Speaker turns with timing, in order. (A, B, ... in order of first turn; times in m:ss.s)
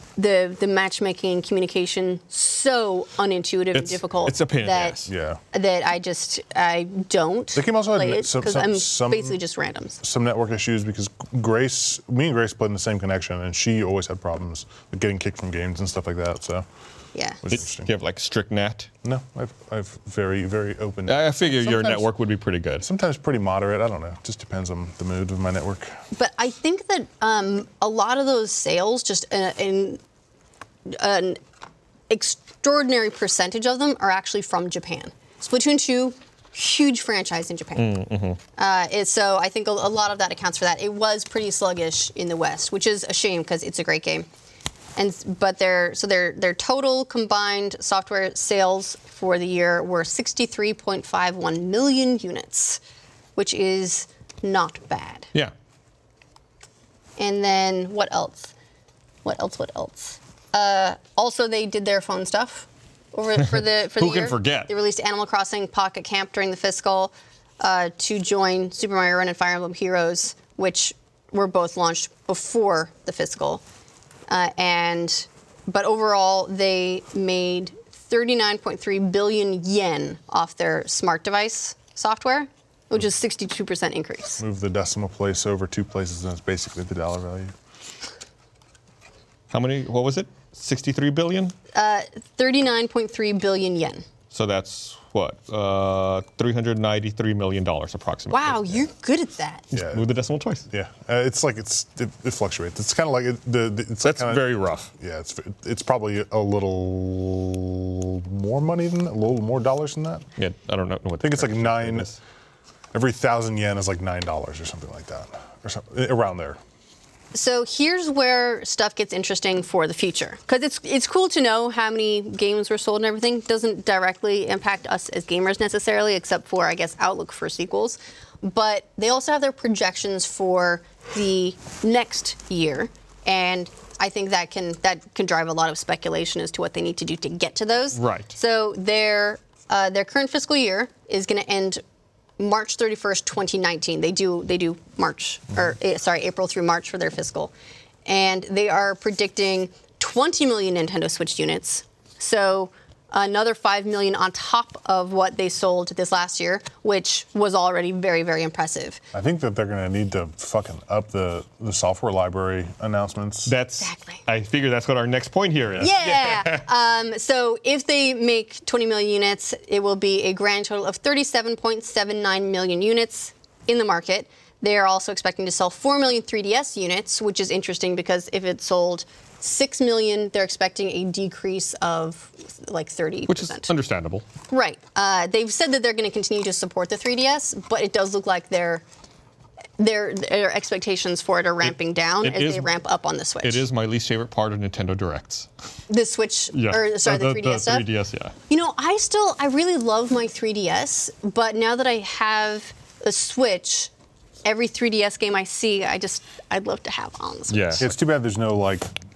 0:00.2-0:05.0 A
0:03.7-0:05.1 B
0:05.1-0:05.4 C
0:05.5-0:10.0 A
0:07.5-0:09.4 C
0:10.0-0:16.7 C
0:17.1-0:17.4 A
0:17.4-0:17.9 C
0:17.5-0:18.9 B
0:19.0-0:22.1 C
0:21.1-0:22.9 B
0:22.8-0:26.0 C
0:26.1-0:30.0 A
0:30.9-0:31.4 A
0:32.1-0:38.0 A
0:37.8-0:38.4 B
0:38.6-0:44.3 A
0:45.0-0:52.8 A
0:53.4-0:55.3 A
0:57.2-0:58.5 A
0:59.2-1:13.6 A
1:03.5-1:04.7 B
1:14.3-1:24.4 A
1:24.4-1:27.6 C
1:29.5-1:31.6 B
1:31.7-1:34.0 A
1:34.3-1:38.8 B
1:38.3-1:39.6 A
1:39.7-1:40.6 B
1:39.7-1:40.1 C
1:40.7-1:50.3 C
1:44.0-1:44.9 B
1:50.4-1:52.2 B
1:51.2-1:52.1 C
1:52.9-1:56.6 C
1:57.3-2:21.8 A
2:18.0-2:18.3 B
2:22.4-2:27.5 A
2:28.1-2:39.0 A
2:39.1-2:43.5 C
2:43.4-2:46.6 B
2:43.8-2:44.2 A
2:45.8-3:03.7 A
3:03.3-3:04.2 B
3:04.5-3:08.8 A
3:09.8-3:13.6 A
3:11.7-3:12.7 B
3:13.4-3:15.5 B
3:15.9-3:17.9 A
3:16.5-3:18.4 B
3:18.5-3:23.9 A
3:24.4-3:27.8 A
3:27.5-3:27.9 B
3:27.8-3:28.9 C